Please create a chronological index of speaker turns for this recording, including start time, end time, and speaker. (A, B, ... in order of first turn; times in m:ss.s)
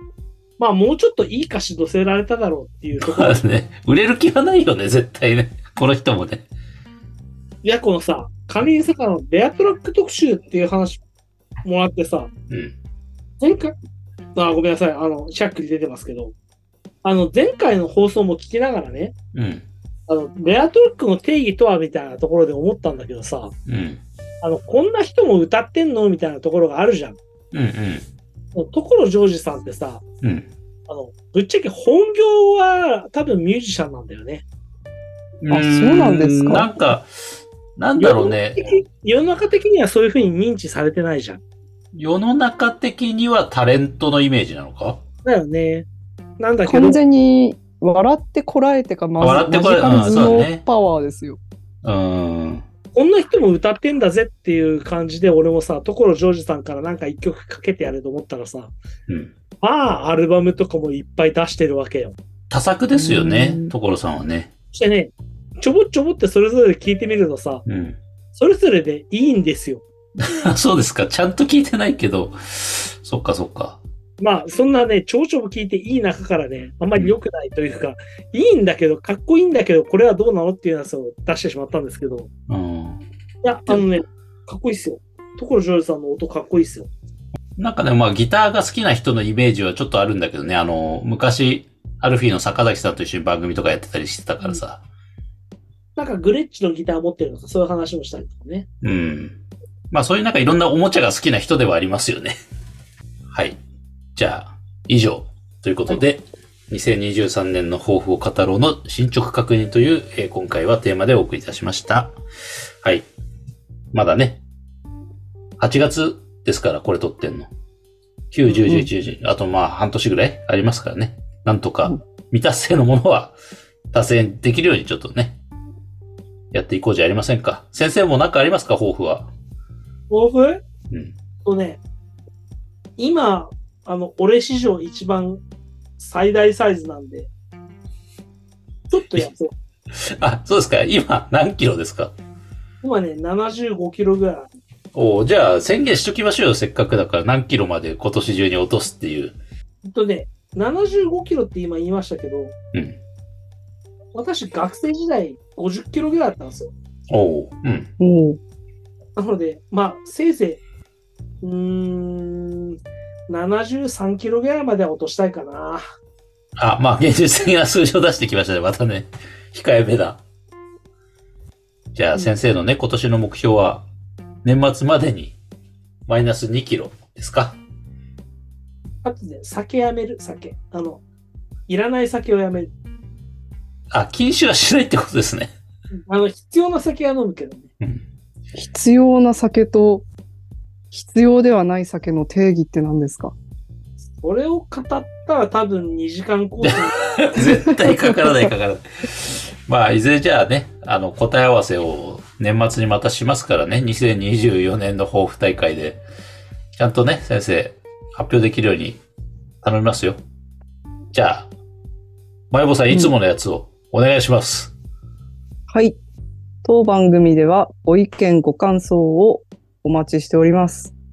0:00.6-0:03.4 A
0:03.0-0:06.4 B
0:07.6-0:11.0 A
0:11.6-0:12.3 A
0:12.5-0:12.7 B
0:13.4-0:13.7 A
0:14.4-0:16.3 A
0:17.0-0:19.1 A
0:19.3-0:19.6 B
0:20.1-0:23.5 A
0:23.7-0:24.0 B
0:24.4-0:27.2 A
0:27.5-0:28.0 B
0:28.5-0:30.0 A
0:30.2-0:30.5 B
0:30.9-0:34.4 A
0:35.4-0:37.1 B
0:35.5-0:36.7 C
0:37.8-0:38.8 B
0:38.0-0:41.4 A
0:41.9-0:45.0 B
0:45.2-0:45.8 A
0:46.4-0:47.0 A
0:46.6-0:51.4 C
0:49.2-0:50.6 B
0:51.8-0:52.6 B
0:52.9-0:58.7 A
0:59.1-0:59.3 B
0:59.6-1:02.2 A
1:02.5-1:04.5 B
1:02.9-1:03.7 C
1:04.7-1:07.6 A
1:07.6-1:08.0 B
1:08.3-1:09.8 A
1:10.2-1:13.8 B
1:14.2-1:22.3 A
1:22.5-1:23.0 B
1:23.4-1:26.9 A
1:27.6-1:34.8 B
1:36.0-1:38.6 A
1:38.8-1:39.4 B
1:39.9-1:42.3 B
1:43.3-1:43.6 B
1:44.2-1:52.1 B
1:53.9-1:54.4 B
1:55.6-1:57.5 B
1:58.3-2:03.3 B
2:03.9-2:05.4 B
2:06.5-2:09.3 B
2:10.1-2:10.6 A
2:11.4-2:11.8 A
2:13.0-2:15.4 A
2:16.0-2:17.3 A
2:18.9-2:19.5 A
2:19.9-2:22.1 B
2:22.8-2:24.5 A
2:24.9-2:29.4 B
2:29.8-2:32.5 A
2:32.7-2:33.0 B
2:34.1-2:36.7 A
2:37.1-2:37.9 B
2:38.0-2:38.4 C
2:39.2-2:40.6 A
2:41.4-2:45.8 A
2:46.6-2:50.2 B
2:51.9-2:53.8 B
2:54.4-2:55.4 B
2:56.1-2:57.6 B
2:59.0-3:01.0 A
3:01.7-3:02.7 A
3:03.9-3:05.5 B
3:06.1-3:07.7 A
3:08.5-3:10.0 C
3:10.9-3:13.3 C
3:14.2-3:17.2 A
3:16.6-3:26.0 B
3:17.4-3:18.2 C
3:26.8-3:29.0 B
3:29.6-3:30.2 B
3:31.1-3:31.5 B
3:32.5-3:34.7 B
3:35.7-3:36.0 C
3:36.6-3:40.9 C